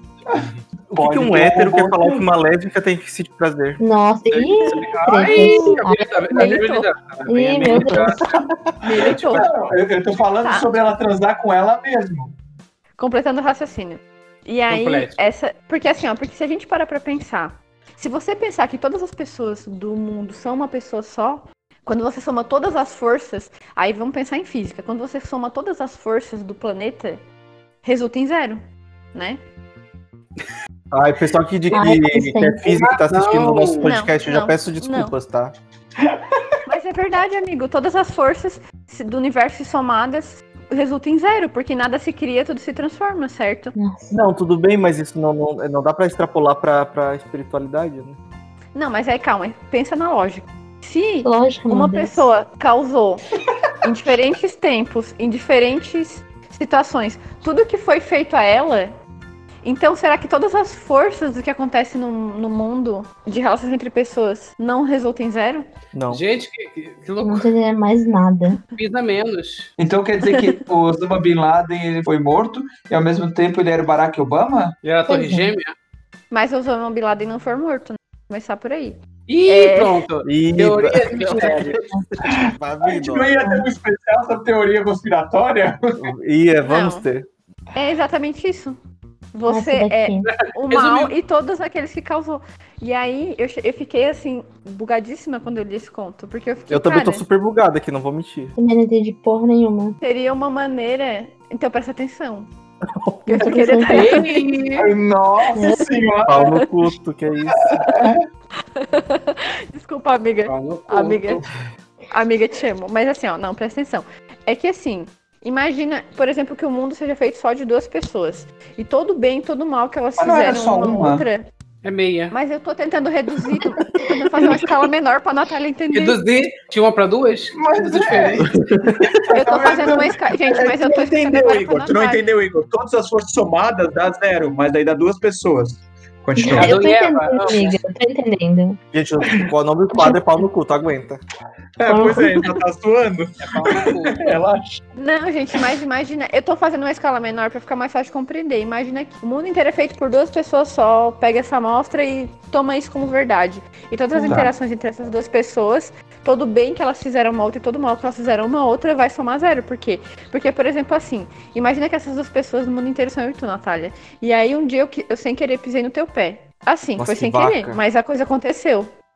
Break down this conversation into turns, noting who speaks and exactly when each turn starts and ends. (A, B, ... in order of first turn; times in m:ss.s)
0:00.3-0:02.2 A
0:00.9-0:04.5 B
0:03.8-0:06.6 C
0:04.7-0:08.4 D
0:06.3-0:06.9 E
0:07.3-0:08.2 C
0:08.8-0:09.4 E
0:09.0-0:09.7 D
0:09.3-0:12.4 A
0:10.4-0:10.7 E
0:13.0-0:27.2 E
0:14.7-0:15.2 D
0:27.8-0:28.6 E
0:29.1-0:29.4 E
0:30.9-0:35.6 B
0:31.7-0:32.8 C
0:32.8-0:33.9 D
0:33.8-0:35.2 E
0:36.7-0:43.7 E
0:43.8-0:44.2 C
0:44.1-0:48.2 B
0:48.8-0:53.2 E
0:51.2-0:52.3 C
0:53.8-0:58.9 E
0:59.6-1:05.6 E
1:05.9-1:06.2 B
1:06.1-1:07.5 D
1:07.2-1:08.6 C
1:08.8-1:09.7 D
1:09.8-1:14.8 A
1:10.2-1:10.6 E
1:14.8-1:15.8 D
1:15.1-1:15.5 C
1:16.3-1:20.0 E
1:19.3-1:21.8 D
1:20.2-1:23.3 B
1:21.3-1:22.1 C
1:22.3-1:26.1 A
1:23.4-1:23.7 C
1:26.0-1:27.3 B
1:26.6-1:27.1 E
1:27.8-1:28.8 E
1:29.3-1:37.2 E
1:29.5-1:30.3 C
1:30.2-1:31.1 D
1:36.7-1:38.6 B
1:38.6-1:40.0 C
1:40.0-1:42.5 E
1:43.0-1:43.5 B
1:43.3-1:44.4 E
1:43.4-1:44.2 C
1:43.9-1:44.9 D
1:44.8-1:46.4 A
1:45.5-1:45.8 C
1:45.6-1:45.8 E
1:46.3-1:47.8 B
1:47.6-1:48.2 A
1:48.8-1:51.4 E
1:50.5-1:51.4 D
1:52.1-2:01.5 E
2:00.2-2:01.3 A
2:01.8-2:02.3 D
2:02.3-2:06.2 E
2:03.5-2:04.7 A
2:05.9-2:08.6 D
2:07.6-2:08.5 A
2:08.7-2:09.1 B
2:09.2-2:16.7 A
2:09.3-2:12.2 E
2:16.4-2:18.8 C
2:16.6-2:17.8 D
2:18.9-2:21.2 B
2:19.9-2:20.4 C
2:21.8-2:24.8 A
2:21.9-2:22.4 C
2:23.4-2:24.4 D
2:25.0-2:48.9 E
2:47.0-2:47.8 B